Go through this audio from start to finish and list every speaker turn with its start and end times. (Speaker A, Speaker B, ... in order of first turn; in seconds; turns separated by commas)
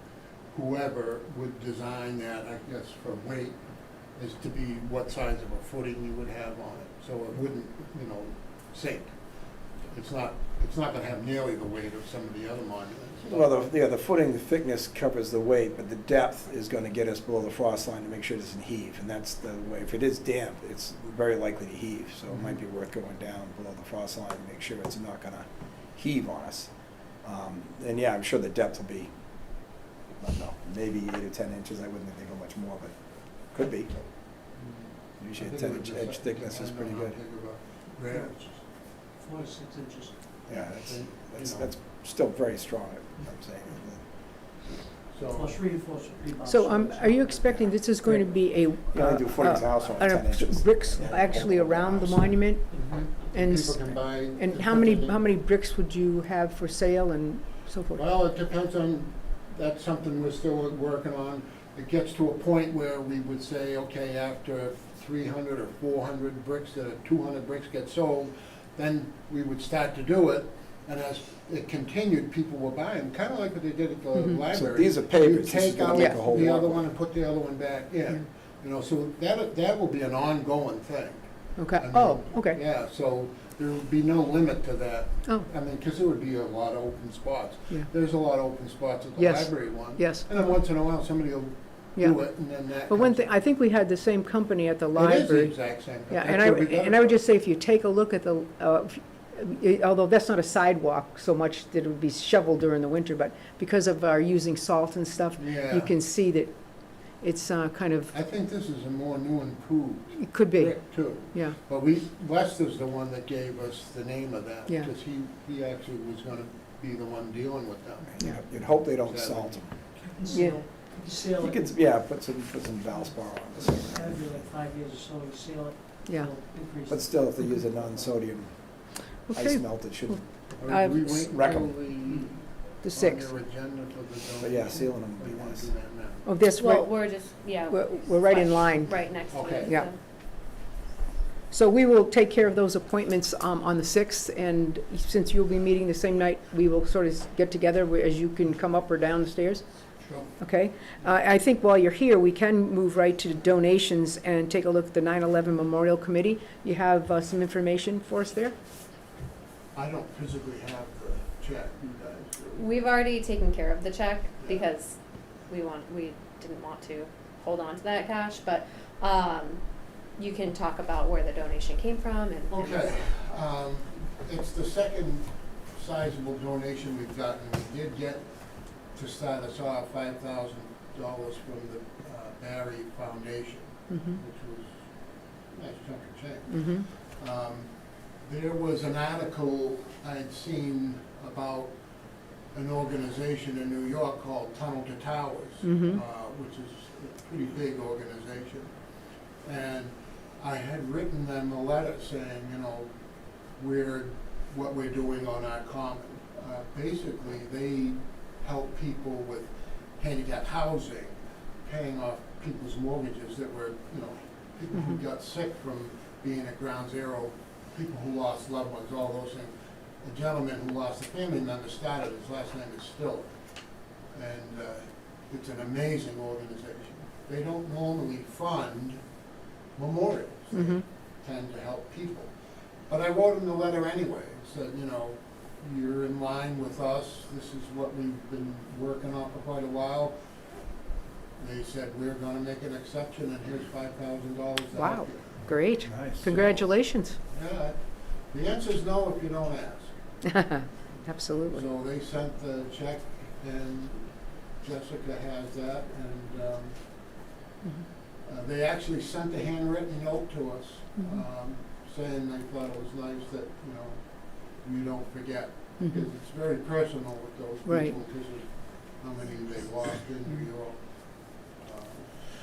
Speaker A: 0.5-3.6, Speaker A: 4.2-9.2, Speaker A: 9.9-13.5, Speaker B: 13.3-26.7, Speaker B: 27.2-29.1, Speaker B: 30.2-34.0, Speaker A: 34.6-38.5, Speaker B: 35.2-37.2, Speaker C: 38.1-38.6, Speaker C: 39.1-40.2, Speaker B: 40.5-44.0, Speaker A: 40.5-41.7, Speaker A: 45.1-45.6, Speaker C: 45.2-47.7, Speaker D: 46.5-52.7, Speaker B: 48.9-52.4, Speaker A: 52.7-55.2, Speaker D: 53.3-58.0, Speaker A: 58.0-93.3, Speaker D: 74.2-74.4, Speaker B: 74.5-76.9, Speaker D: 81.6-82.6, Speaker D: 89.2-90.3, Speaker D: 92.0-106.6, Speaker A: 95.0-97.2, Speaker A: 105.4-105.9, Speaker D: 107.1-108.1, Speaker A: 108.1-119.6, Speaker D: 110.2-111.6, Speaker B: 118.2-119.7, Speaker C: 119.9-121.7, Speaker D: 120.3-120.6, Speaker B: 121.3-124.2, Speaker C: 122.9-128.2, Speaker D: 126.0-126.3, Speaker B: 126.9-130.2, Speaker D: 129.3-131.3, Speaker A: 130.6-136.3, Speaker B: 131.1-132.2, Speaker D: 132.8-133.3, Speaker B: 134.4-135.7, Speaker D: 136.3-137.1, Speaker E: 136.6-140.0, Speaker D: 137.7-139.9, Speaker A: 139.3-139.7, Speaker D: 141.5-149.7, Speaker A: 150.0-150.3, Speaker D: 150.4-158.6, Speaker A: 159.7-162.8, Speaker E: 162.6-165.0, Speaker E: 165.5-169.6, Speaker E: 170.2-172.9, Speaker A: 172.5-178.3, Speaker A: 178.9-184.8, Speaker D: 183.9-184.2, Speaker A: 185.5-191.7, Speaker D: 186.5-186.8, Speaker A: 192.5-198.7, Speaker D: 195.6-196.0, Speaker A: 199.4-202.9, Speaker A: 203.6-223.3, Speaker A: 224.1-229.0, Speaker A: 229.8-232.3, Speaker D: 230.5-230.8, Speaker A: 232.9-240.2, Speaker A: 241.4-245.4, Speaker D: 244.8-247.2, Speaker B: 245.8-246.4, Speaker A: 246.3-246.7, Speaker A: 247.3-247.8, Speaker A: 248.3-249.9, Speaker D: 250.2-251.6, Speaker A: 251.5-256.8, Speaker A: 258.3-270.8, Speaker D: 261.0-261.2, Speaker D: 267.7-268.0, Speaker A: 271.6-272.1